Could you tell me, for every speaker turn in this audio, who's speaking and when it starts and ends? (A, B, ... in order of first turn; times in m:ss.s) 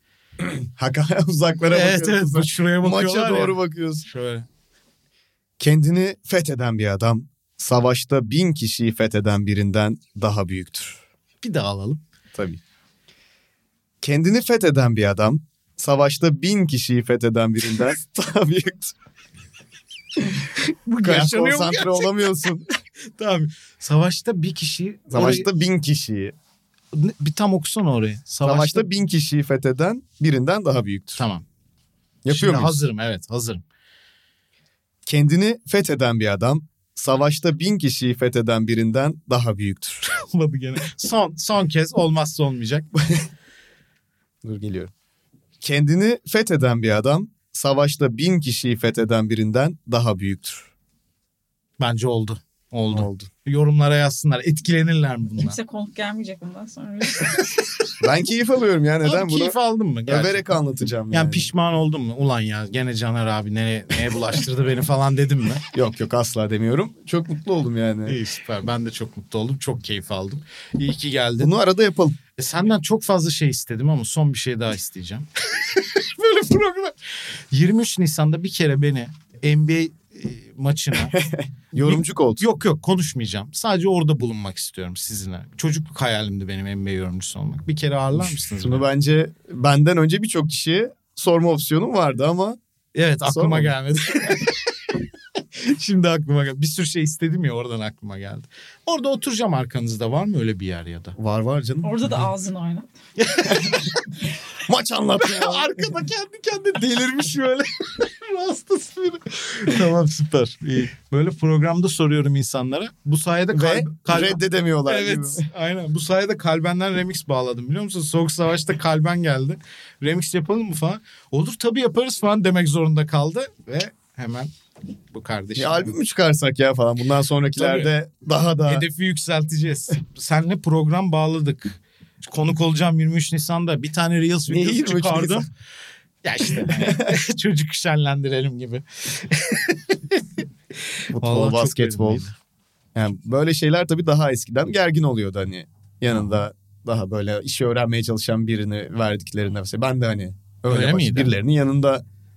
0:00.4-0:04.0 A
0:01.7-0:04.4 B
0:05.6-0:11.0 A
0:11.4-0:12.0 B
0:12.3-0:12.6 A
0:14.0-0:18.9 A
0:20.2-0:22.6 A
0:20.8-0:22.5 B
0:23.2-0:25.5 B
0:25.1-0:26.3 A
0:26.9-0:28.9 B
0:28.4-0:31.2 A
0:31.2-0:31.4 B
0:32.2-0:32.8 A
0:32.3-0:33.6 B
0:35.0-0:40.0 A
0:40.0-0:43.0 B
0:44.4-0:44.9 A
0:45.6-0:50.7 A
0:51.8-0:55.6 B
0:52.9-0:53.3 A
0:55.4-0:57.5 C
0:58.0-0:59.6 A
0:59.0-1:00.5 B
1:00.1-1:01.5 A
1:01.1-1:05.6 B
1:05.7-1:08.2 A
1:08.0-1:11.5 B
1:11.4-1:12.2 A
1:12.4-1:16.9 B
1:17.5-1:21.2 B
1:21.0-1:22.4 A
1:21.7-1:28.9 B
1:28.2-1:32.6 A
1:32.9-1:34.6 B
1:33.2-1:33.8 A
1:35.6-1:41.2 B
1:41.2-1:41.9 A
1:41.8-1:42.9 C
1:43.2-1:44.0 B
1:43.5-1:43.9 A
1:44.6-1:45.9 A
1:45.2-2:04.5 B
1:53.5-1:55.4 A
2:05.1-2:06.0 B
2:05.6-2:08.8 A
2:07.6-2:07.9 B
2:08.6-2:15.5 B
2:14.5-2:15.5 A
2:16.2-2:20.2 B
2:16.5-2:17.1 A
2:21.1-2:22.3 A
2:21.1-2:22.3 B
2:22.9-2:32.0 A
2:26.1-2:26.4 B
2:30.7-2:31.4 B